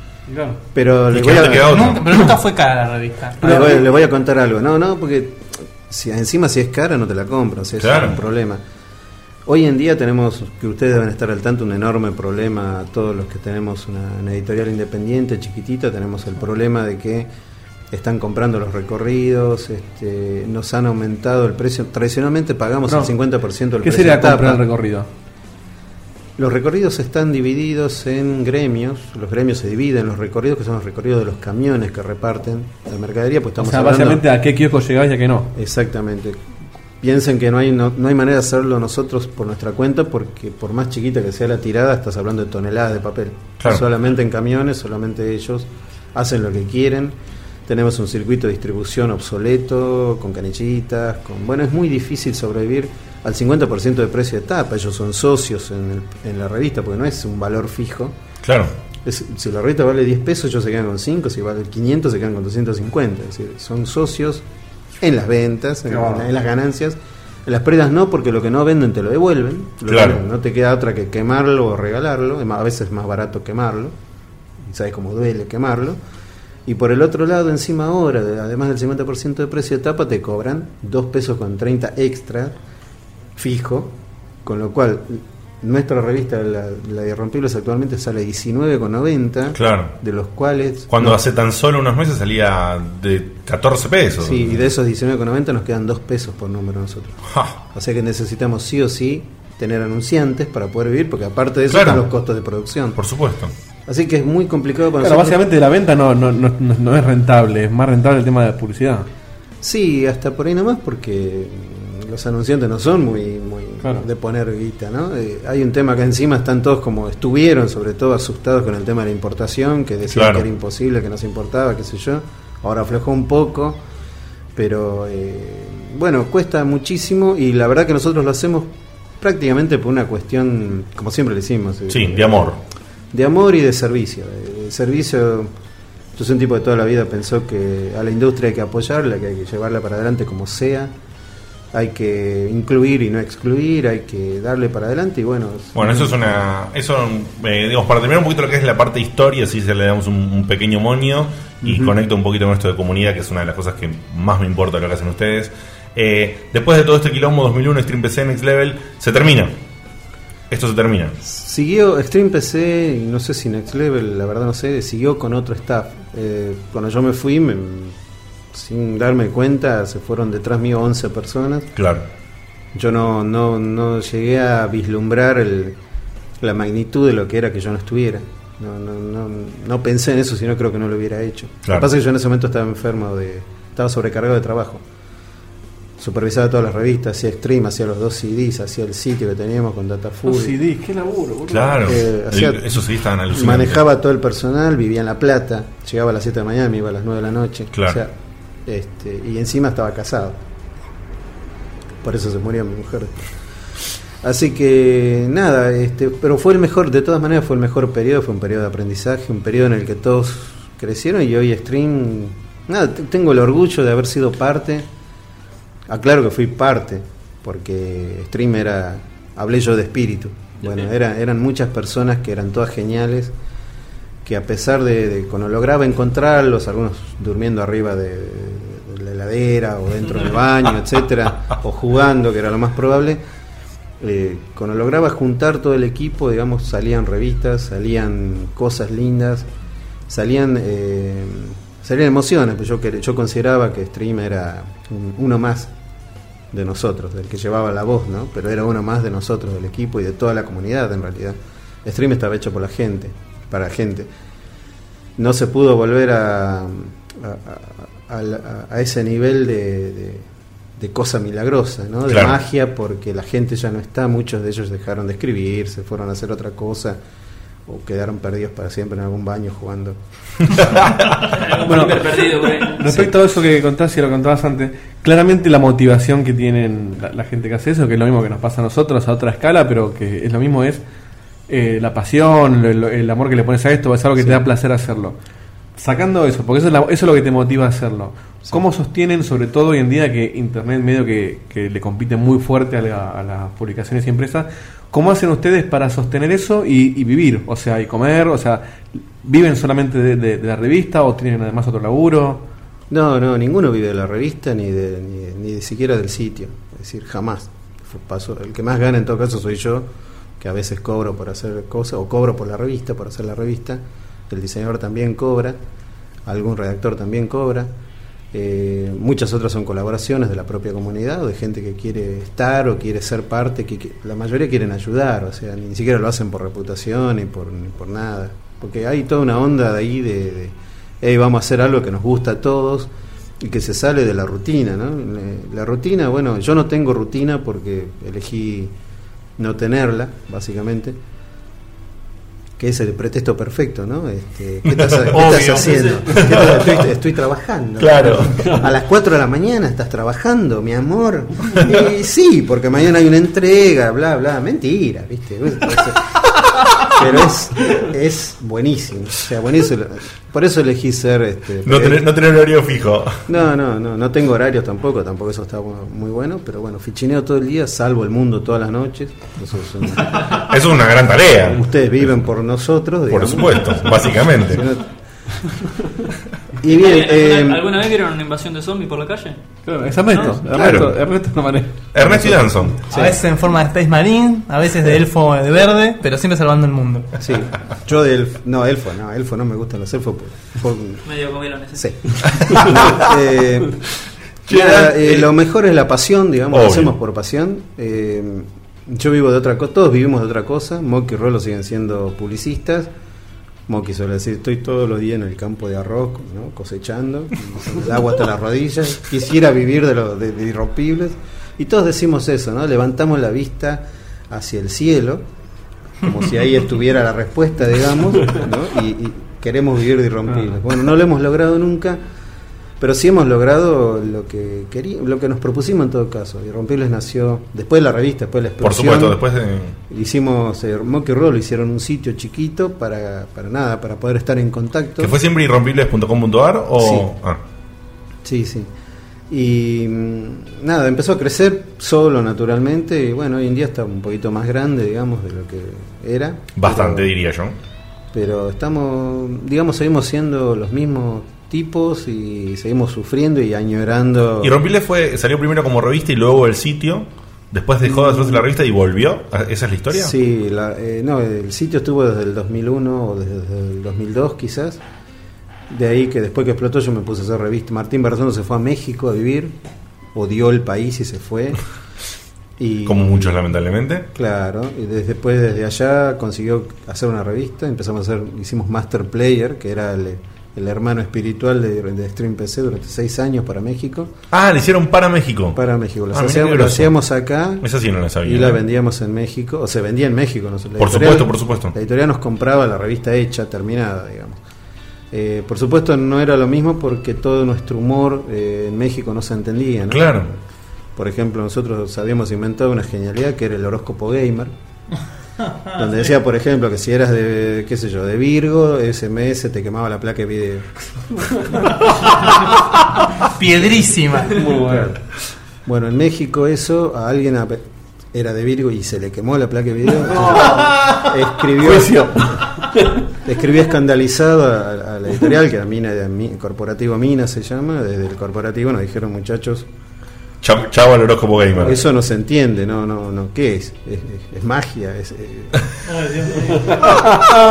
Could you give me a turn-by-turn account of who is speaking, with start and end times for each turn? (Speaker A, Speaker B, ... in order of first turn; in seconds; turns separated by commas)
Speaker A: 0.3-0.6, Speaker B: 0.7-1.9, Speaker C: 1.1-2.3, Speaker D: 1.6-3.8, Speaker B: 3.4-8.6, Speaker A: 3.4-3.8, Speaker C: 7.8-8.2, Speaker B: 9.5-17.3, Speaker B: 17.9-24.6, Speaker A: 22.9-23.1, Speaker A: 23.8-25.1, Speaker B: 26.4-34.2, Speaker A: 33.6-35.5, Speaker B: 35.5-36.4, Speaker B: 37.0-58.2, Speaker C: 58.4-58.7, Speaker B: 59.0-64.5, Speaker B: 65.0-74.0, Speaker A: 65.9-66.3, Speaker C: 69.9-70.2, Speaker B: 74.6-76.0, Speaker B: 76.7-82.6, Speaker B: 83.4-91.2, Speaker C: 89.5-90.0, Speaker C: 90.9-94.7, Speaker B: 94.2-97.2, Speaker C: 97.3-97.6, Speaker B: 97.7-103.0, Speaker C: 101.7-102.1, Speaker C: 103.0-103.5, Speaker B: 103.9-105.4, Speaker A: 105.0-109.1, Speaker B: 109.6-123.8, Speaker C: 120.1-120.5, Speaker B: 124.6-132.6, Speaker C: 131.9-132.6, Speaker B: 133.1-135.5, Speaker B: 136.2-140.9, Speaker B: 141.7-146.3, Speaker C: 145.7-159.5, Speaker B: 151.6-151.9, Speaker C: 160.5-161.2, Speaker B: 161.2-168.0, Speaker B: 168.5-171.7, Speaker C: 171.8-172.1, Speaker B: 172.7-175.8, Speaker B: 176.4-184.8, Speaker B: 186.0-190.6, Speaker A: 190.2-192.0, Speaker C: 191.5-193.8, Speaker B: 191.9-192.8, Speaker B: 193.3-198.1, Speaker C: 197.7-198.0, Speaker B: 198.7-200.4, Speaker B: 202.0-203.2, Speaker B: 204.2-214.9, Speaker B: 215.9-223.3, Speaker B: 224.2-233.2, Speaker B: 234.0-239.5, Speaker B: 240.1-245.7, Speaker B: 246.5-254.1, Speaker B: 255.2-267.0, Speaker C: 262.1-262.4, Speaker B: 267.7-270.0, Speaker C: 270.6-271.1, Speaker E: 271.2-273.0, Speaker A: 271.6-280.8, Speaker A: 281.5-285.2, Speaker A: 285.8-302.4, Speaker B: 302.9-315.6, Speaker B: 316.3-317.7, Speaker B: 318.3-338.7, Speaker B: 339.4-341.0, Speaker B: 342.6-356.1, Speaker C: 344.9-345.2, Speaker D: 345.1-345.8, Speaker E: 345.6-346.0, Speaker C: 346.1-346.7, Speaker C: 347.8-348.5, Speaker B: 356.8-362.1, Speaker C: 361.6-363.2, Speaker B: 363.3-370.4, Speaker C: 370.3-371.7, Speaker B: 371.5-374.9, Speaker C: 373.1-374.6, Speaker B: 376.6-377.7, Speaker E: 376.7-379.4, Speaker A: 379.7-382.0, Speaker B: 380.2-380.8, Speaker C: 380.5-380.9, Speaker C: 381.9-382.9, Speaker B: 382.0-383.2, Speaker D: 382.9-387.1, Speaker B: 387.2-391.0, Speaker E: 391.1-391.9, Speaker B: 391.8-393.8, Speaker C: 392.4-393.1, Speaker B: 394.5-402.9, Speaker C: 394.5-395.3, Speaker C: 396.5-396.9, Speaker B: 403.7-415.2, Speaker B: 416.0-422.0, Speaker B: 422.8-429.2, Speaker C: 428.6-429.8, Speaker B: 429.9-435.2, Speaker C: 435.0-437.4, Speaker B: 436.8-437.1, Speaker B: 438.2-438.7, Speaker B: 439.3-447.1, Speaker C: 446.6-447.6, Speaker B: 448.1-454.6, Speaker C: 454.4-460.1, Speaker B: 457.9-458.4, Speaker B: 459.9-464.8, Speaker B: 465.7-469.6, Speaker B: 470.1-471.6, Speaker B: 472.6-473.4, Speaker C: 472.9-474.1, Speaker B: 474.1-484.1, Speaker C: 484.3-485.6, Speaker B: 485.6-487.7, Speaker C: 486.1-486.9, Speaker C: 487.6-488.6, Speaker B: 488.2-494.4, Speaker C: 490.8-491.7, Speaker B: 495.1-500.4, Speaker C: 499.9-500.3, Speaker B: 501.0-504.5, Speaker B: 505.8-510.7, Speaker D: 513.3-514.4, Speaker A: 514.3-515.0, Speaker B: 514.6-515.0, Speaker B: 515.7-517.6, Speaker B: 518.1-522.1, Speaker A: 520.1-520.9, Speaker A: 521.6-523.0, Speaker B: 523.2-529.7, Speaker C: 530.4-531.8, Speaker B: 531.6-535.6, Speaker D: 535.9-536.5, Speaker A: 536.5-537.4